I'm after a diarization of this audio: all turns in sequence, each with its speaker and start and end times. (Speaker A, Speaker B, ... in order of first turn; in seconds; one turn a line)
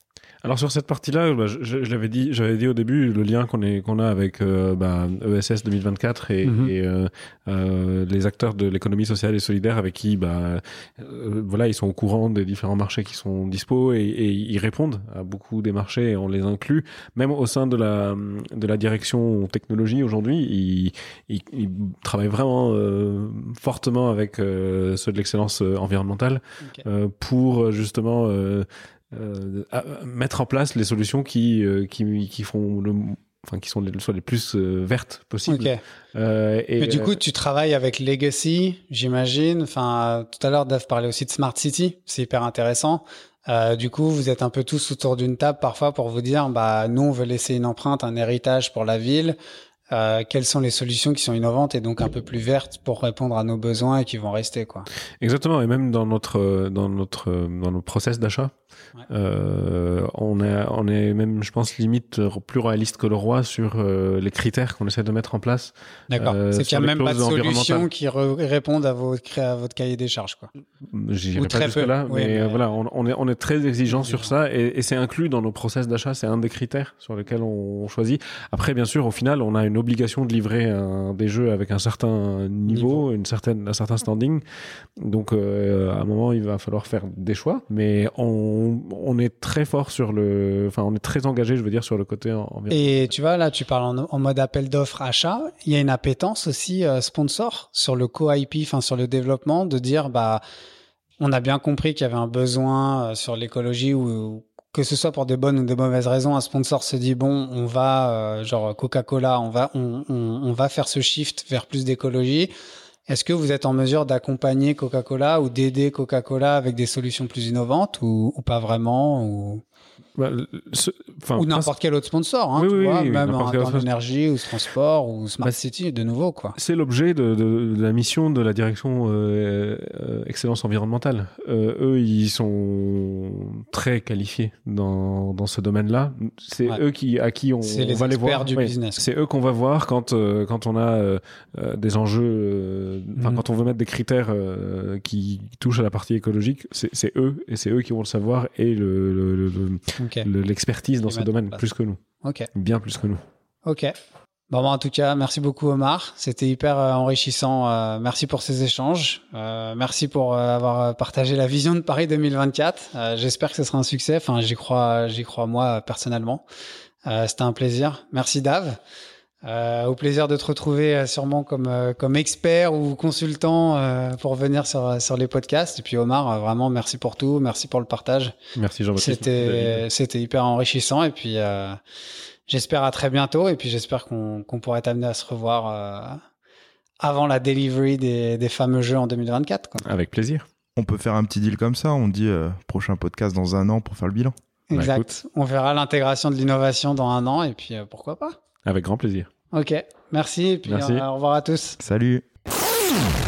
Speaker A: 0.4-37.2
Speaker B: 6.4-6.7
Speaker B: 35.5-35.8
Speaker B: 36.8-49.4
Speaker B: 49.9-54.9
Speaker A: 55.2-58.5
Speaker A: 59.1-67.9
Speaker B: 66.1-70.5
Speaker A: 70.8-84.4
Speaker B: 71.3-72.6
Speaker B: 73.9-74.3
Speaker B: 82.7-83.0
Speaker A: 85.0-93.1
Speaker B: 92.7-100.4
Speaker B: 101.2-112.5
Speaker B: 113.1-119.6
Speaker A: 120.2-121.7
Speaker B: 121.4-126.5
Speaker A: 122.5-123.9
Speaker A: 126.5-152.0
Speaker B: 137.6-139.0
Speaker B: 143.2-143.4
Speaker B: 150.0-150.3
Speaker B: 151.1-151.6
Speaker B: 152.2-152.5
Speaker A: 152.5-153.2
Speaker B: 153.7-153.9
Speaker B: 154.5-166.4
Speaker B: 167.1-168.8
Speaker B: 169.4-178.3
Speaker A: 178.6-179.8
Speaker B: 179.0-181.8
Speaker B: 182.5-186.2
Speaker B: 187.0-189.8
Speaker A: 189.8-190.4
Speaker C: 190.8-194.3
Speaker B: 194.7-198.4
Speaker A: 194.7-195.1
Speaker A: 198.6-199.3
Speaker B: 199.5-201.8
Speaker A: 200.7-201.0
Speaker C: 201.8-202.2